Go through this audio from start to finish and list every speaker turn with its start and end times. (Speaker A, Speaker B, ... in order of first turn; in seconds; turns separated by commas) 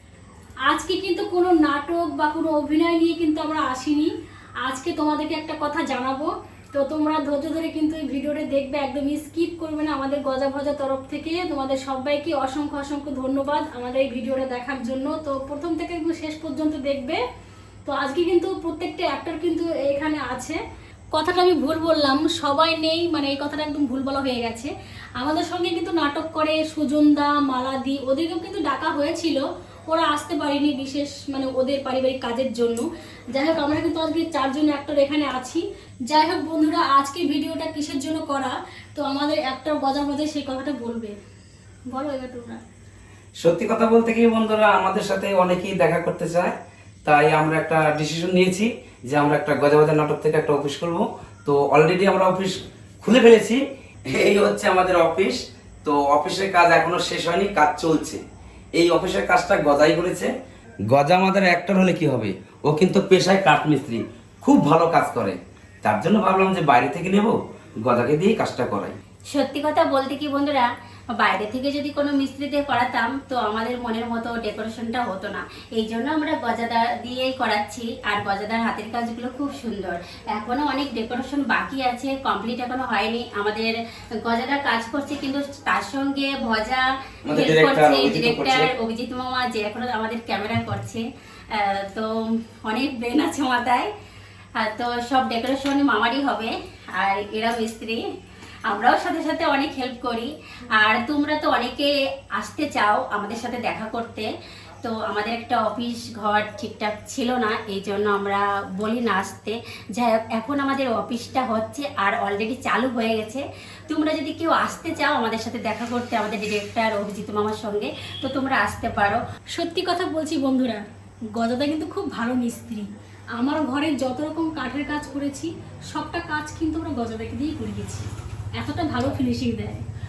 Speaker A: 0.7-4.1, Speaker A: 4.6-17.2, Speaker A: 17.9-20.6, Speaker A: 21.1-41.1, Speaker A: 41.9-42.6, Speaker B: 43.4-46.5, Speaker B: 47.0-58.2, Speaker B: 58.8-60.3, Speaker B: 60.9-69.0, Speaker C: 69.3-70.7, Speaker C: 71.2-92.1, Speaker B: 87.3-88.7, Speaker C: 92.6-93.9, Speaker C: 94.6-98.0, Speaker C: 98.7-104.3, Speaker C: 104.8-119.2, Speaker A: 119.5-120.8, Speaker A: 121.4-128.1, Speaker A: 128.6-129.8